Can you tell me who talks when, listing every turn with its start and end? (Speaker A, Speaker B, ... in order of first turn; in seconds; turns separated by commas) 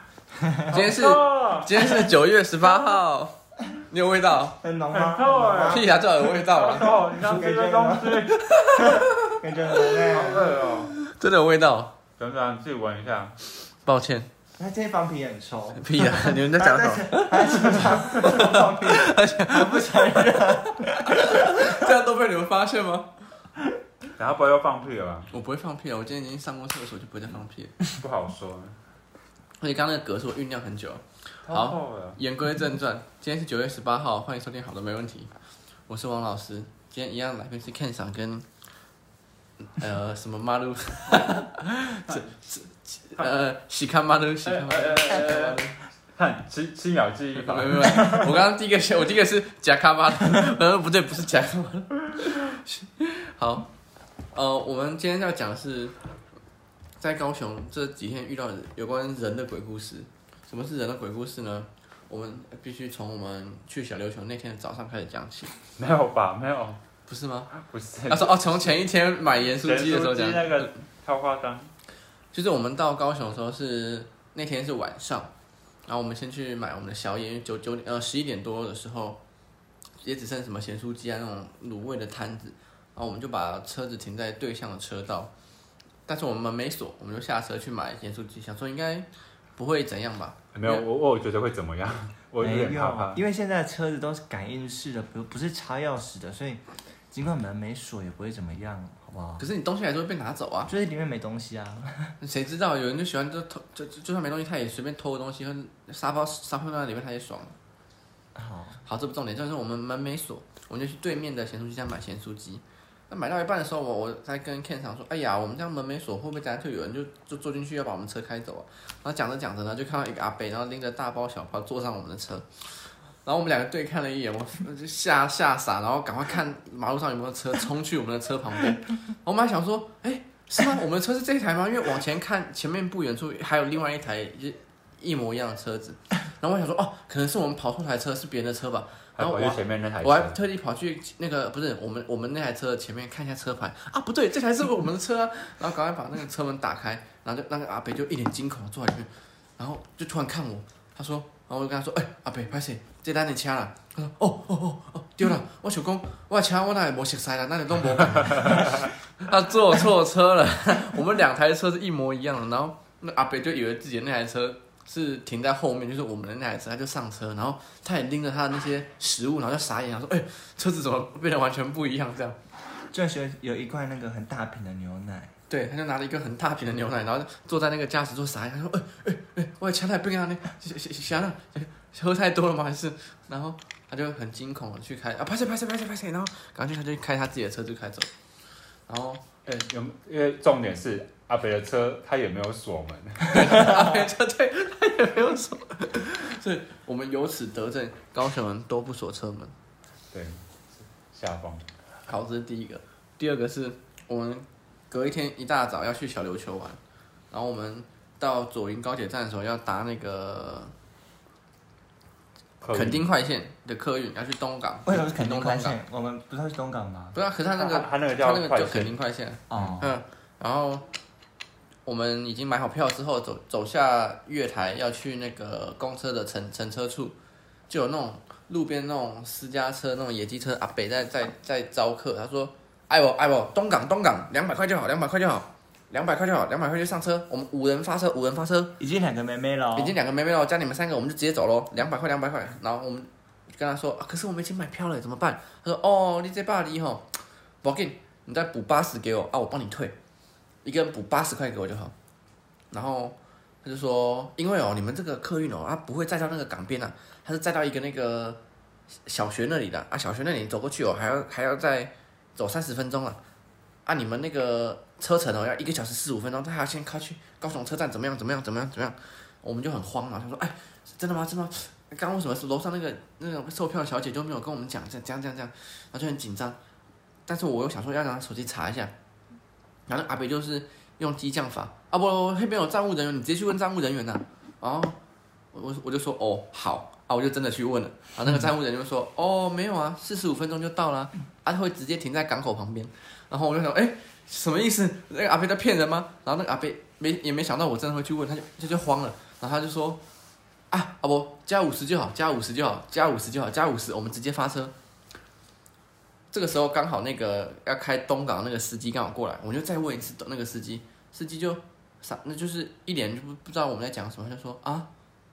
Speaker A: 0.3-0.7, Speaker B: 0.7-2.0, Speaker C: 0.7-4.6, Speaker B: 2.6-3.0, Speaker A: 4.6-5.9, Speaker B: 4.9-8.8, Speaker C: 5.7-7.0, Speaker A: 7.1-10.8, Speaker C: 8.3-9.4, Speaker B: 9.9-10.9, Speaker C: 10.9-11.9, Speaker B: 12.2-13.4, Speaker C: 13.8-14.3, Speaker A: 14.6-21.7, Speaker C: 15.8-23.1, Speaker B: 24.1-25.3, Speaker C: 25.3-27.8, Speaker B: 27.9-28.8, Speaker C: 29.6-35.3, Speaker B: 31.4-32.2, Speaker C: 35.9-38.5, Speaker C: 39.6-45.8, Speaker B: 42.1-42.4, Speaker B: 44.5-45.6, Speaker B: 46.1-48.4, Speaker C: 47.4-53.7, Speaker C: 54.3-56.0, Speaker C: 57.0-65.5, Speaker B: 65.8-66.8, Speaker C: 67.1-67.5, Speaker B: 67.6-68.7, Speaker C: 68.1-70.7, Speaker B: 69.5-71.7, Speaker C: 72.3-75.3, Speaker C: 75.9-79.2, Speaker C: 80.0-85.3, Speaker C: 86.1-90.9, Speaker B: 90.5-93.2, Speaker A: 92.4-99.5, Speaker C: 99.4-100.7, Speaker A: 100.7-102.2, Speaker C: 102.2-107.5, Speaker A: 108.3-108.8, Speaker C: 108.8-172.4, Speaker B: 139.2-140.4, Speaker A: 172.9-175.3, Speaker C: 175.5-188.1, Speaker C: 188.9-189.2, Speaker B: 189.5-193.9, Speaker C: 193.3-199.5, Speaker B: 200.1-200.4, Speaker B: 201.0-201.7, Speaker C: 202.1-206.8, Speaker C: 207.3-210.7, Speaker B: 212.6-213.1, Speaker C: 212.7-215.8, Speaker A: 214.9-217.2, Speaker C: 217.1-220.9, Speaker B: 217.6-219.0, Speaker A: 219.5-219.9, Speaker C: 221.9-227.2, Speaker C: 227.7-238.8, Speaker A: 238.8-240.0, Speaker C: 239.8-249.9, Speaker C: 250.6-251.9, Speaker C: 252.7-258.4, Speaker C: 259.1-263.2, Speaker C: 263.9-276.6, Speaker C: 277.3-278.9, Speaker C: 279.9-285.0, Speaker C: 285.5-300.0, Speaker C: 300.7-304.7, Speaker C: 306.3-314.9